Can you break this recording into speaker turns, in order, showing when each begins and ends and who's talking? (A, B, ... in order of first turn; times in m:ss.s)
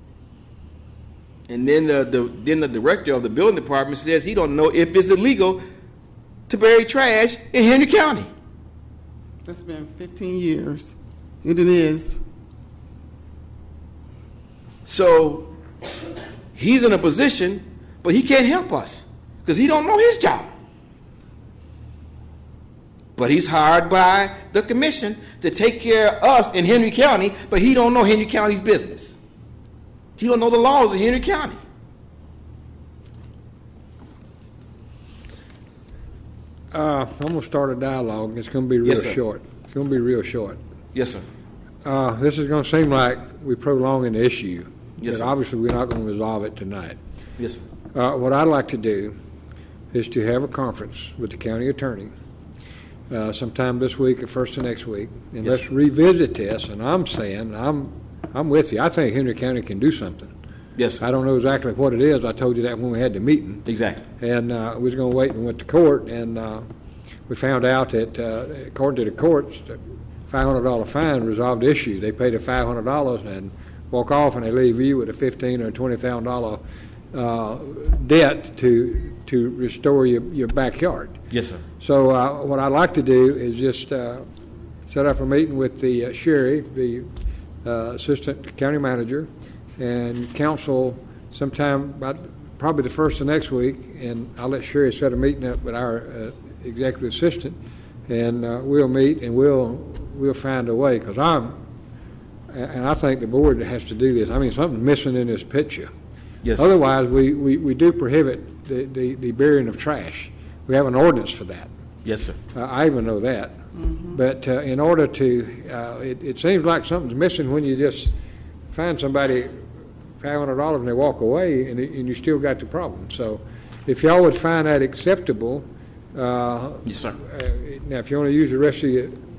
0:01.5-0:05.6 A
0:06.5-0:08.3 A
0:09.4-0:12.2 B
0:14.8-0:15.5 A
0:16.5-0:20.5 A
0:23.2-0:29.2 A
0:30.2-0:31.6 A
0:36.7-0:40.6 C
0:38.8-0:39.2 A
0:40.9-0:41.2 A
0:41.8-0:47.0 C
0:45.0-0:45.3 A
0:47.4-0:47.6 A
0:47.9-0:49.1 C
0:49.9-0:52.1 C
0:53.1-1:00.3 C
1:00.8-1:01.0 A
1:01.0-1:03.6 C
1:03.6-1:04.0 A
1:04.2-1:06.6 C
1:07.3-1:16.6 C
1:17.1-1:21.2 C
1:21.3-1:21.6 A
1:21.8-1:24.2 C
1:24.8-1:27.1 C
1:27.6-1:41.6 C
1:42.5-1:45.9 C
1:46.4-1:46.7 A
1:46.6-1:51.7 C
1:52.0-1:52.4 A
1:52.5-1:58.1 C
1:58.7-1:59.6 C
2:00.2-2:09.1 C
2:06.8-2:07.2 A